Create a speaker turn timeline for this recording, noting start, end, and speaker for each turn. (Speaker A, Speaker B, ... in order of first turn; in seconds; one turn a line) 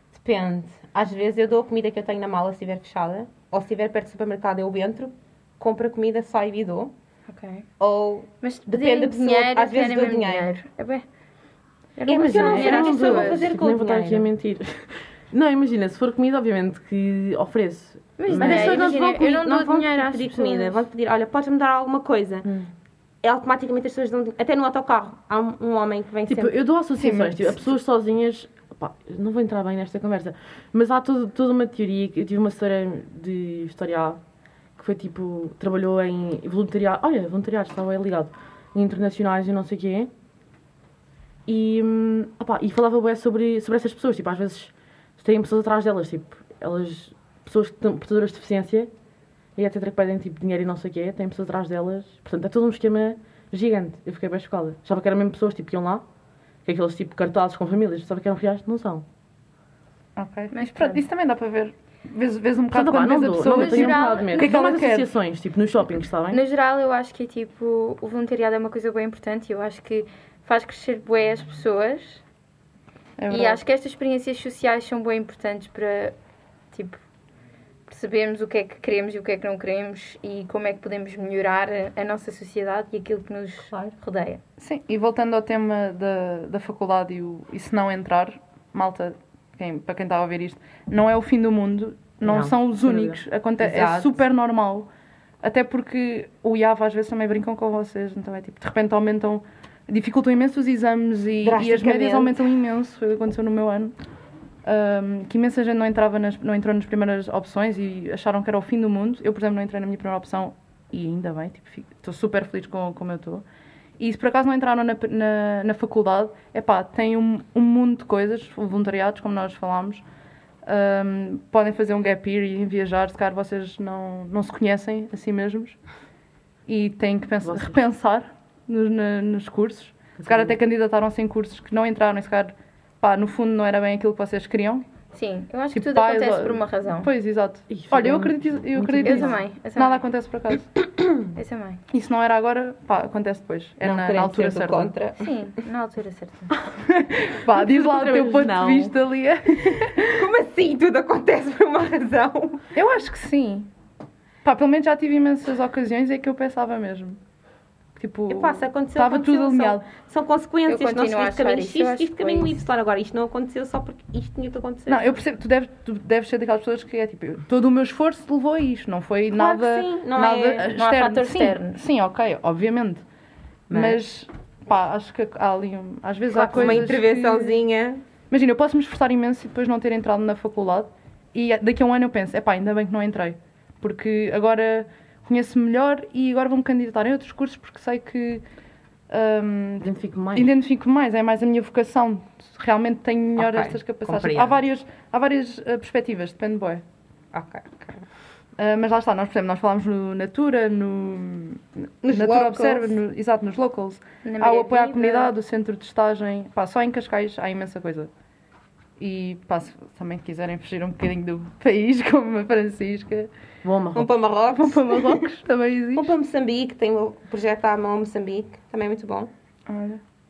Speaker A: 0.1-6.9
Speaker B: 7.3-7.7
Speaker A: 7.8-10.5
Speaker B: 8.4-11.0
Speaker B: 12.0-13.4
Speaker A: 12.1-14.3
Speaker C: 12.1-19.3
Speaker B: 18.2-20.8
Speaker A: 18.4-22.5
Speaker C: 22.4-22.7
Speaker A: 23.2-26.6
Speaker C: 26.3-34.2
Speaker D: 27.0-27.6
Speaker C: 34.8-40.1
Speaker C: 41.5-48.9
Speaker C: 49.5-56.0
Speaker C: 56.6-59.0
Speaker D: 60.1-65.1
Speaker B: 60.5-61.0
Speaker C: 62.7-66.4
Speaker B: 63.4-64.5
Speaker B: 66.3-72.2
Speaker D: 73.2-73.6
Speaker B: 73.3-76.1
Speaker B: 76.7-77.0
Speaker B: 77.9-84.4
Speaker D: 84.6-94.9
Speaker C: 92.2-93.2
Speaker A: 93.6-94.1
Speaker D: 95.4-103.9
Speaker A: 101.4-102.5
Speaker D: 104.6-113.4
Speaker D: 114.0-120.0
Speaker D: 120.6-125.8
Speaker D: 126.7-134.8
Speaker C: 127.4-127.8
Speaker C: 130.2-130.6
Speaker B: 135.1-137.1
Speaker D: 135.7-140.8
Speaker C: 137.7-139.4
Speaker B: 139.0-140.0
Speaker B: 141.3-141.8
Speaker D: 141.9-144.9
Speaker A: 143.8-145.3
Speaker B: 145.2-146.5
Speaker D: 146.8-150.2
Speaker C: 147.5-148.9
Speaker A: 150.0-152.6
Speaker D: 152.7-153.7
Speaker D: 154.4-157.2
Speaker D: 157.9-159.8
Speaker A: 158.3-165.2
Speaker B: 160.7-162.6
Speaker D: 164.9-173.0
Speaker A: 169.3-170.7
Speaker B: 170.7-171.8
Speaker A: 173.7-174.0
Speaker D: 173.7-177.6
Speaker A: 176.3-178.0
Speaker D: 178.3-188.4
Speaker D: 189.1-196.8
Speaker C: 189.8-190.5
Speaker A: 193.3-194.6
Speaker A: 197.3-198.1
Speaker D: 198.6-208.1
Speaker A: 202.0-203.0
Speaker B: 204.2-205.3
Speaker D: 209.0-213.3
Speaker C: 213.6-214.1
Speaker A: 213.9-215.3
Speaker D: 214.5-216.1
Speaker A: 215.9-219.3
Speaker D: 219.7-220.0